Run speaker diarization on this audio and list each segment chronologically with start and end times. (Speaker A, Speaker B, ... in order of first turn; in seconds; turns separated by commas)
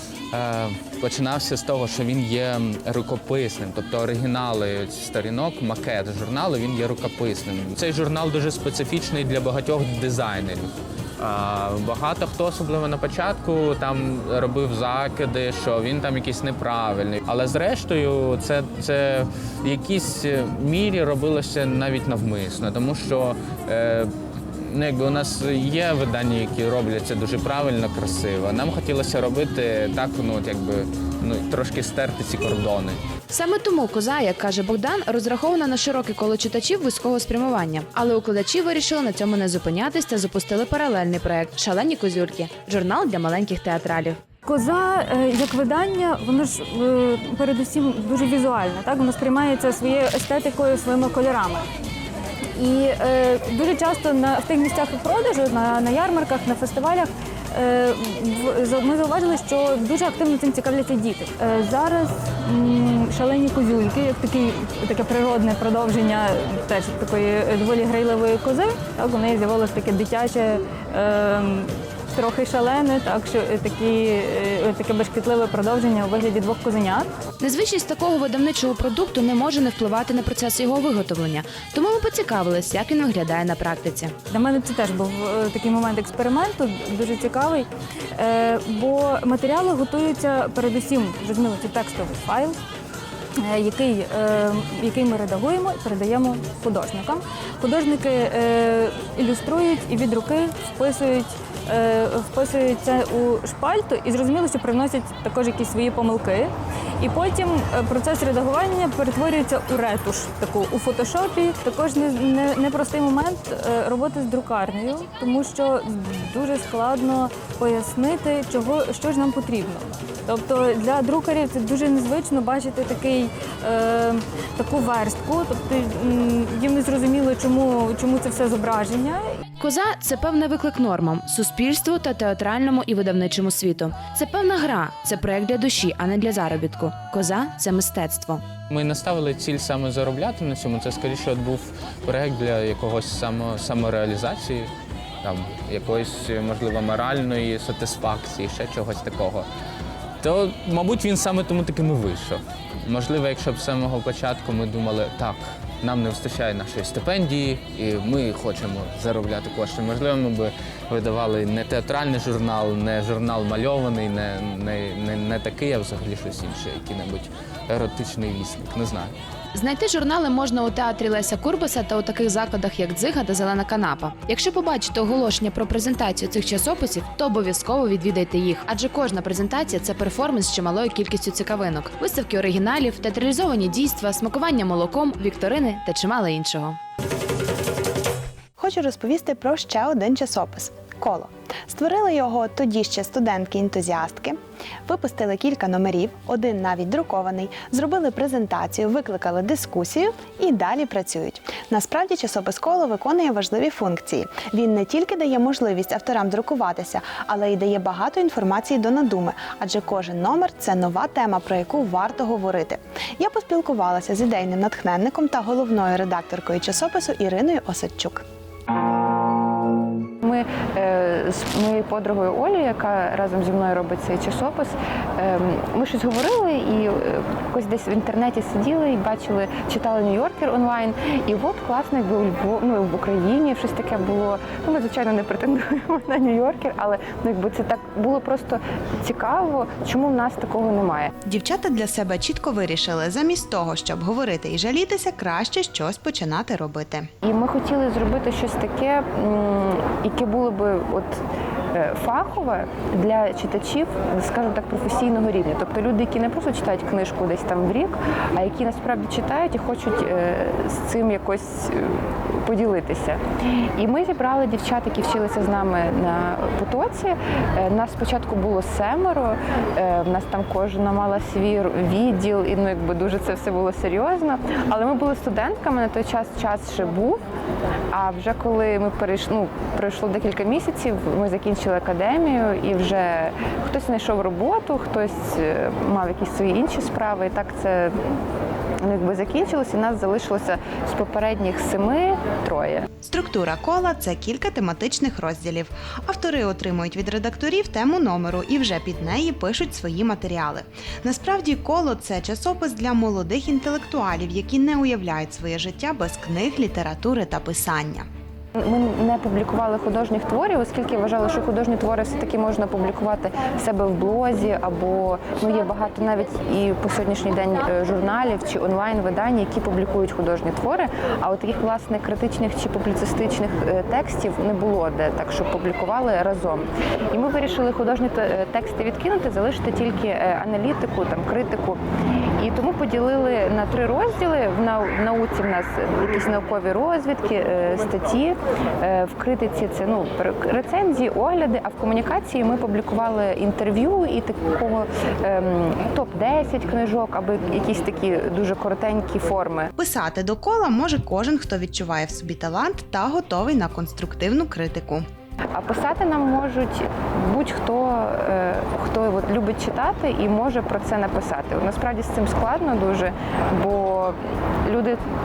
Speaker A: 0.3-33.0, Speaker B: 33.3-44.2, Speaker C: 44.5-51.6, Speaker C: 52.5-77.1, Speaker B: 77.4-84.2, Speaker C: 84.3-92.6, Speaker C: 93.4-129.2, Speaker B: 129.6-138.4, Speaker A: 138.7-144.7, Speaker A: 145.2-149.5, Speaker A: 150.2-169.2, Speaker B: 169.5-186.8, Speaker D: 188.6-218.2, Speaker E: 220.2-241.1, Speaker D: 241.2-247.1, Speaker E: 247.2-277.2, Speaker E: 277.9-288.0, Speaker E: 288.8-292.9, Speaker D: 293.0-308.1, Speaker E: 308.6-349.7, Speaker D: 349.8-355.1, Speaker E: 355.5-365.0